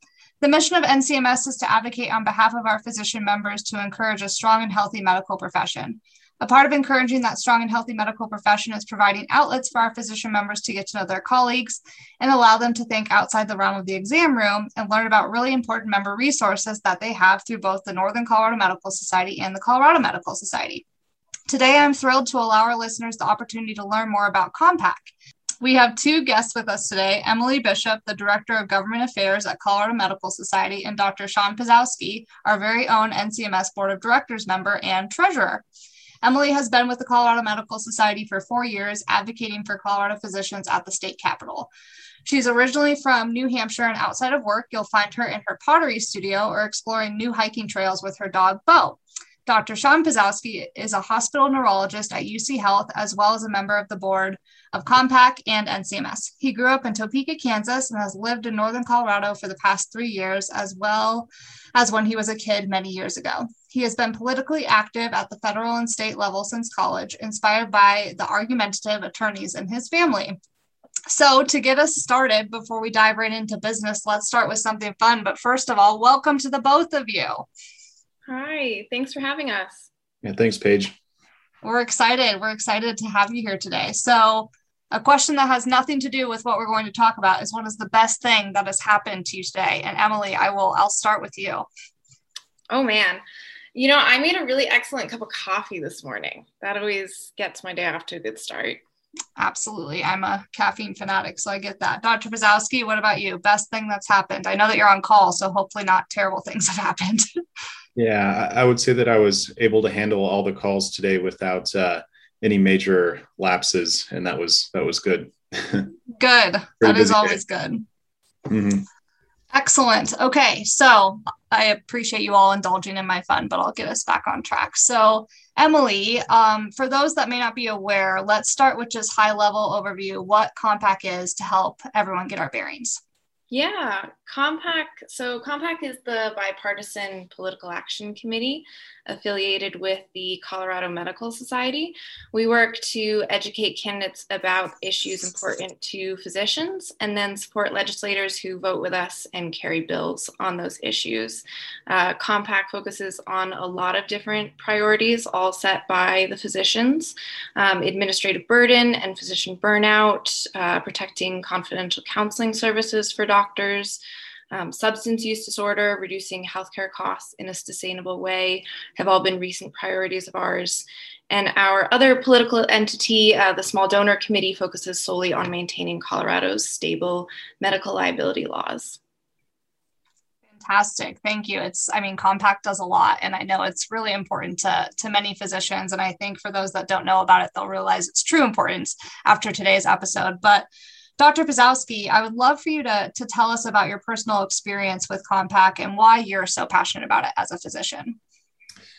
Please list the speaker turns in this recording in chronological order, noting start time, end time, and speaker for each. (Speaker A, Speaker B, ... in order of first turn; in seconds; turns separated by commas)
Speaker A: 0.4-20.8, Speaker A: 21.5-35.6, Speaker A: 36.2-41.7, Speaker A: 42.2-70.4, Speaker A: 71.1-77.5, Speaker B: 78.3-79.9, Speaker C: 80.2-80.9, Speaker A: 81.6-91.7, Speaker B: 92.7-93.2, Speaker B: 93.7-98.8, Speaker A: 99.4-107.2, Speaker C: 108.0-115.9, Speaker A: 116.2-117.8, Speaker C: 116.8-117.4, Speaker C: 118.5-118.8, Speaker A: 119.5-133.0, Speaker B: 133.5-164.0, Speaker B: 164.5-179.0, Speaker A: 180.5-198.2